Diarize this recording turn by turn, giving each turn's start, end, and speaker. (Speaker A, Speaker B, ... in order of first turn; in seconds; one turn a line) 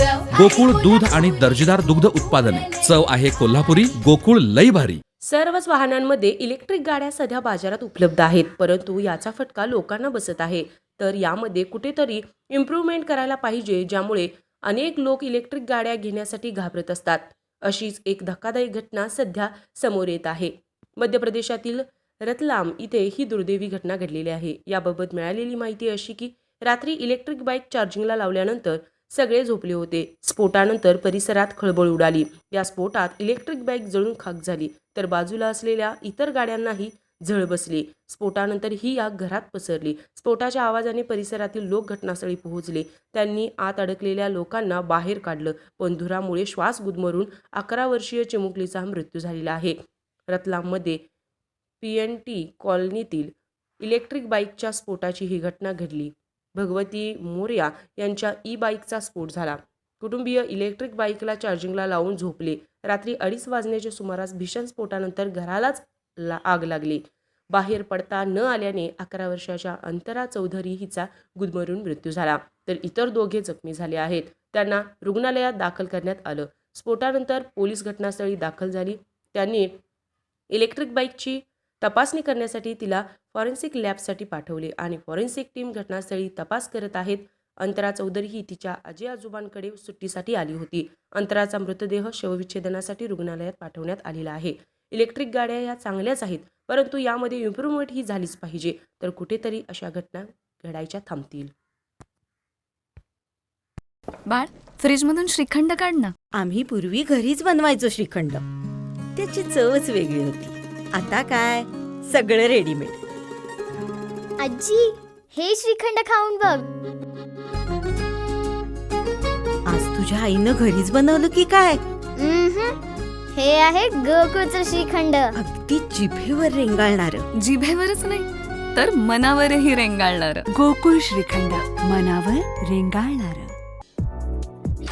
Speaker A: 0.3-5.0
Speaker B: 5.2-49.8
Speaker B: 50.3-51.0
Speaker B: 51.8-79.7
Speaker B: 80.5-101.5
Speaker C: 104.3-106.1
Speaker D: 106.3-108.5
Speaker D: 109.2-113.0
Speaker E: 114.4-116.7
Speaker D: 119.7-121.8
Speaker E: 122.2-122.8
Speaker E: 123.3-125.3
Speaker D: 125.3-127.2
Speaker C: 127.4-130.4
Speaker F: 130.5-133.5